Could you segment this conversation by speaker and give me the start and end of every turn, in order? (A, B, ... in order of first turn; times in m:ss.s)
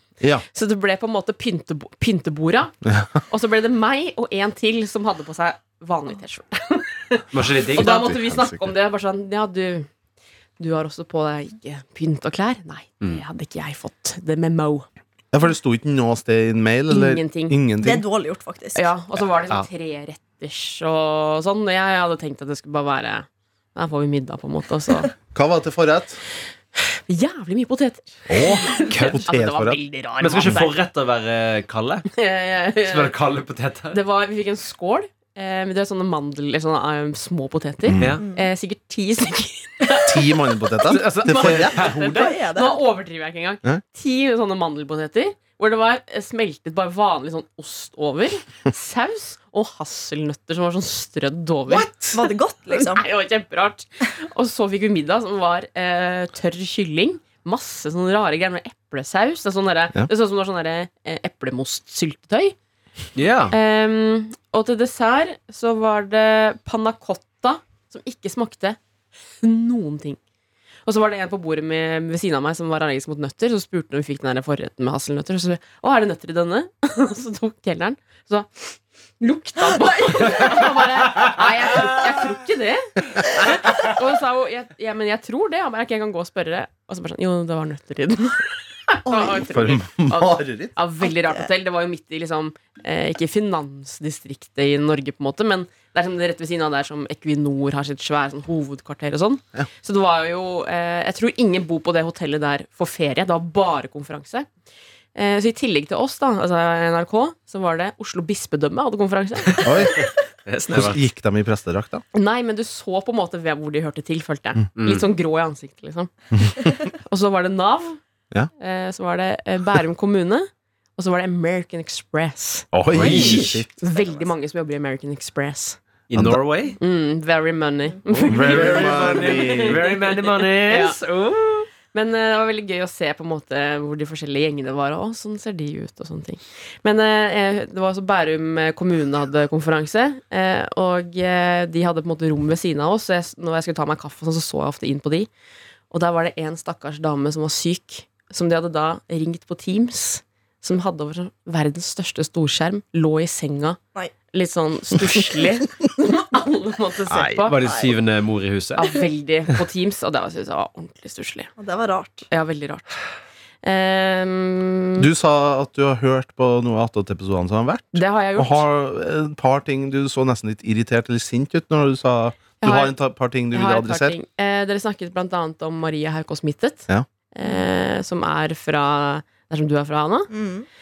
0:00.5-0:02.7 A
0:02.8-0:03.2 B
0:03.3-0:09.9 A
0:07.3-0:08.0 C
0:07.7-0:08.7 B
0:10.6-0:14.9 A
0:15.3-0:18.0 B
0:16.9-0:17.6 A
0:17.8-0:18.9 D
0:18.7-0:25.1 A
0:25.3-0:26.2 B
0:27.1-0:30.8 A
0:28.3-0:29.8 B
0:28.9-0:29.2 C
0:30.2-0:32.0 C
0:32.1-0:33.1 A
0:32.9-0:34.0 C
0:33.9-1:02.5 A
0:37.8-0:38.2 B
0:38.2-0:38.5 D
0:40.0-0:41.9 B
0:40.9-0:42.3 C
0:42.0-0:42.8 D
0:52.1-0:53.0 D
1:03.2-1:03.6 C
1:03.5-1:08.8 A
1:09.4-1:10.2 A
1:10.8-1:44.5 A
1:29.0-1:29.4 D
1:29.5-1:30.7 B
1:31.1-1:31.4 D
1:45.1-1:49.9 A
1:49.6-1:50.0 B
1:50.5-1:51.0 C
1:50.7-1:52.0 B
1:52.1-1:56.1 A
1:54.8-1:55.1 C
1:56.3-1:56.6 B
1:57.0-1:58.0 A
1:58.6-2:05.8 A
2:02.7-2:03.9 B
2:02.9-2:03.6 C
2:06.1-2:06.8 C
2:06.1-2:06.4 B
2:06.8-2:25.3 A
2:08.1-2:11.0 C
2:08.2-2:09.8 B
2:25.9-2:37.6 A
2:37.1-2:37.5 B
2:37.5-2:38.9 C
2:37.6-2:38.0 D
2:38.8-2:41.5 A
2:41.6-2:42.3 D
2:42.3-2:42.9 A
2:43.6-2:45.1 A
2:45.0-2:54.2 B
2:47.9-2:48.6 A
2:52.6-2:53.0 A
2:53.5-3:00.3 A
3:00.3-3:00.7 D